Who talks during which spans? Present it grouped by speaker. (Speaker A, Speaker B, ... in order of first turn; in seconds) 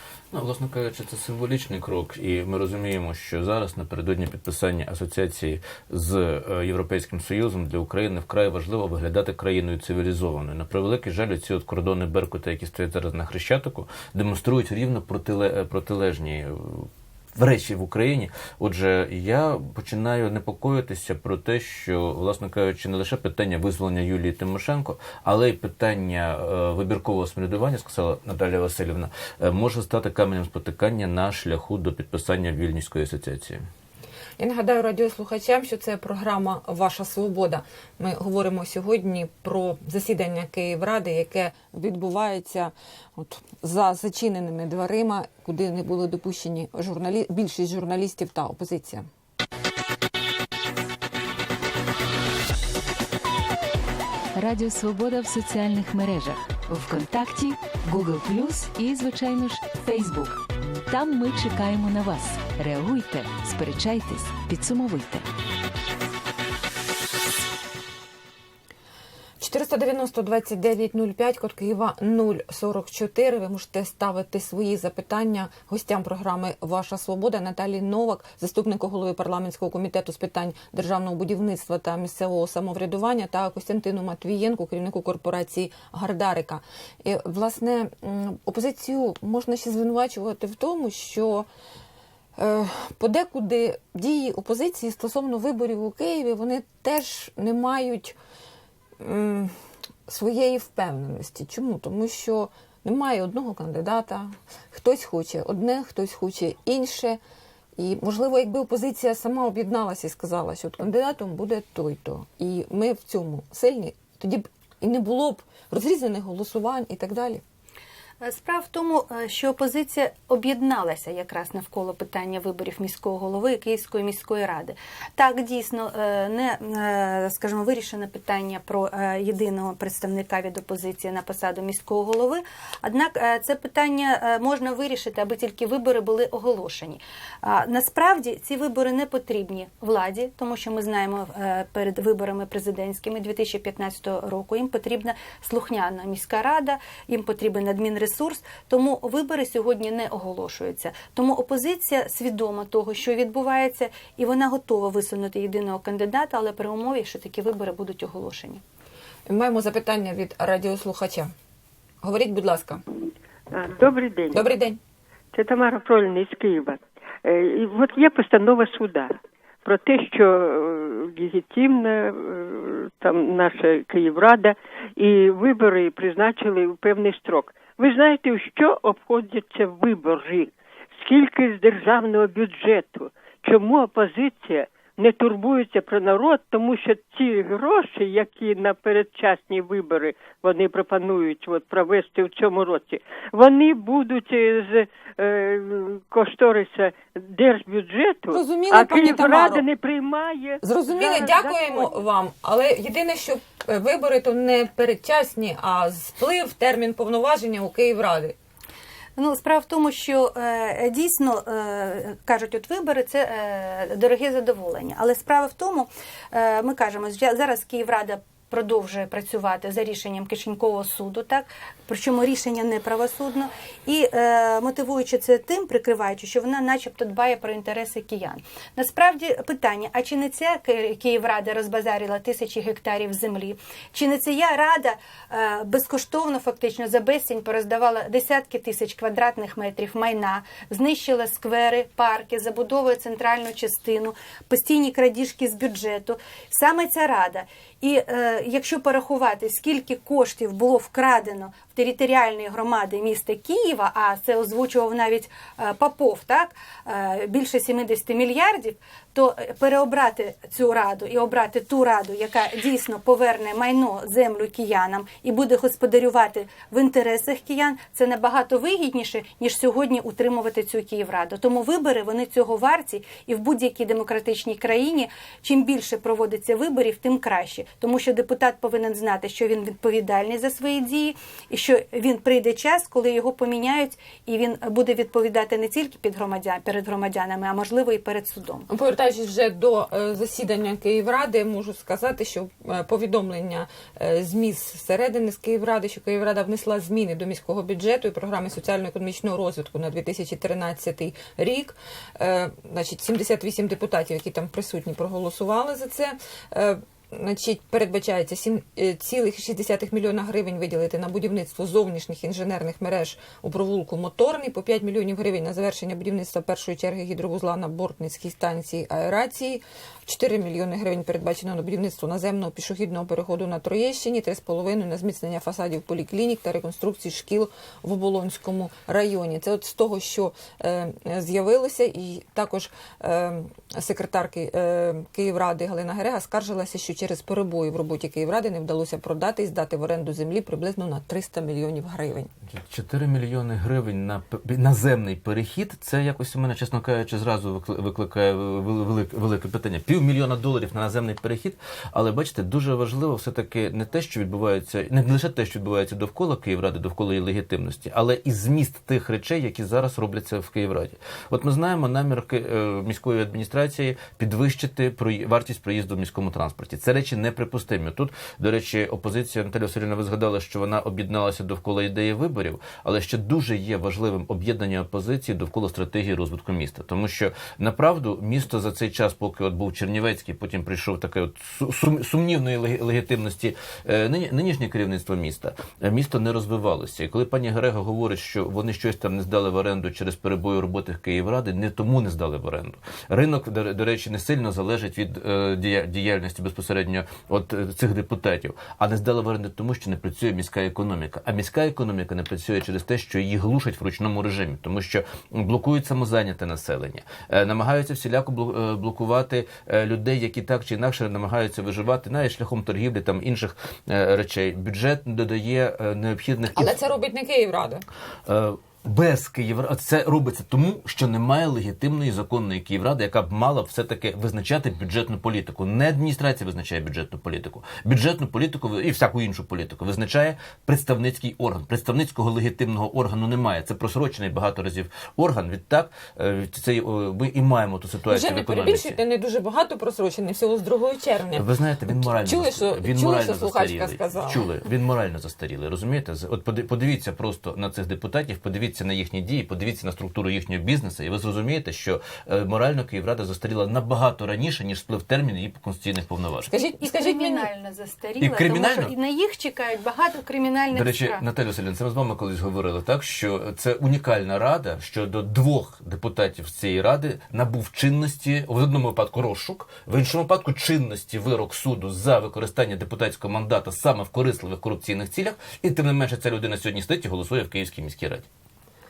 Speaker A: 0.3-33.7, 342.5-416.8, 418.2-439.0, 441.3-456.5, 458.2-458.9, 460.7-478.3
Speaker B: 34.4-49.1, 69.4-91.5, 92.4-98.1, 99.0-99.5, 100.1-107.2, 107.8-117.4, 159.3-161.3, 162.0-162.8, 164.3-164.8, 198.3-199.6, 200.6-208.3, 288.7-342.3, 416.5-417.9, 438.1-444.5, 456.5-457.5
Speaker C: 54.4-65.3
Speaker D: 118.2-158.6, 209.2-288.7, 456.8-461.2
Speaker E: 163.5-164.4, 165.3-202.0